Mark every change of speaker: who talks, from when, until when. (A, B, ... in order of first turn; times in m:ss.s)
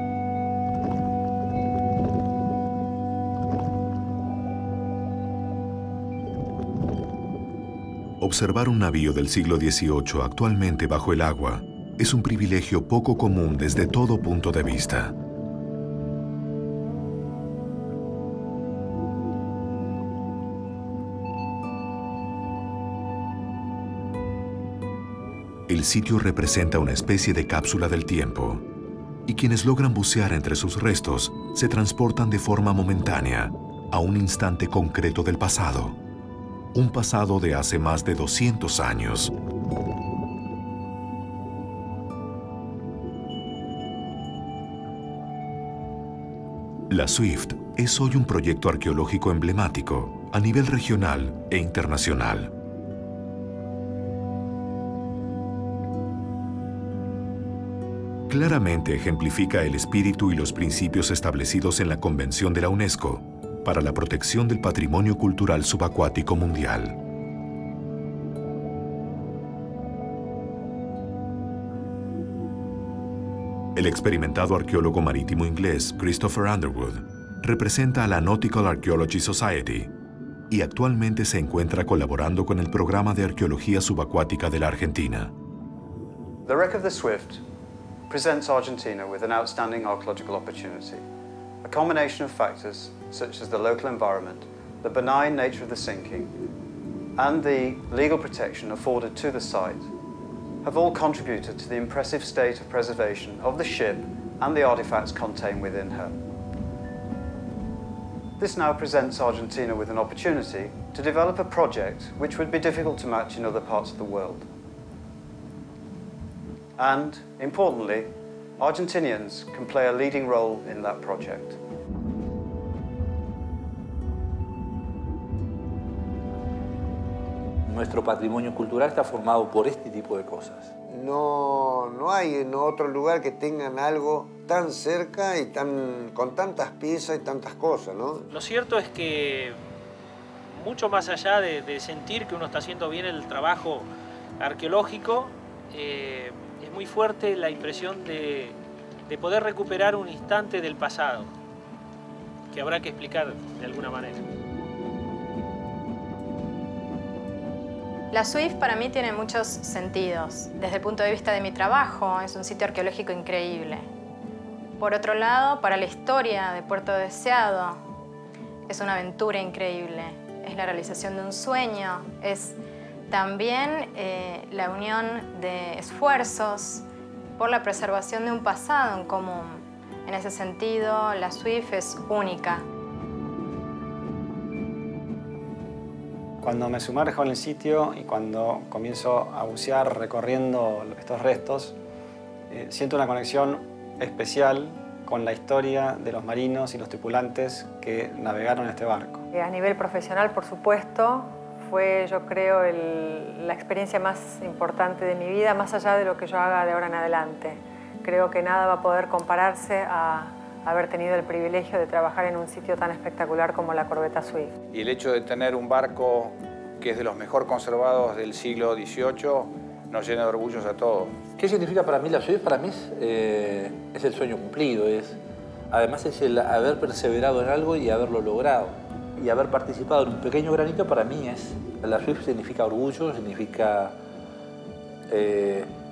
0:08.2-0:15.1 A
0:25.7-0:28.6 A
0:29.3-0:36.0 A
0:36.7-0:39.3 A
0:46.9-0:52.5 A
0:58.3-1:07.0 A
1:13.8-1:19.9 A
1:20.5-1:25.3 A
1:26.4-1:27.4 B
1:28.1-1:31.0 B
1:31.6-1:36.3 B
1:37.2-1:39.9 B
1:40.6-1:46.2 B
1:48.4-1:54.5 B
1:56.8-2:01.6 B
2:07.6-2:10.7 C
2:10.9-2:18.3 D
2:18.3-2:19.6 E
2:20.5-2:23.9 E
2:24.4-2:31.3 E
2:32.5-2:34.3 E
2:38.1-2:43.9 F
2:44.8-2:47.8 F
2:48.7-2:52.6 F
2:53.1-2:56.8 F
2:57.4-3:02.6 F
3:06.4-3:11.8 G
3:12.5-3:19.2 G
3:19.3-3:34.6 H
3:34.7-3:41.2 I
3:41.4-3:54.0 C
3:55.1-3:55.7 C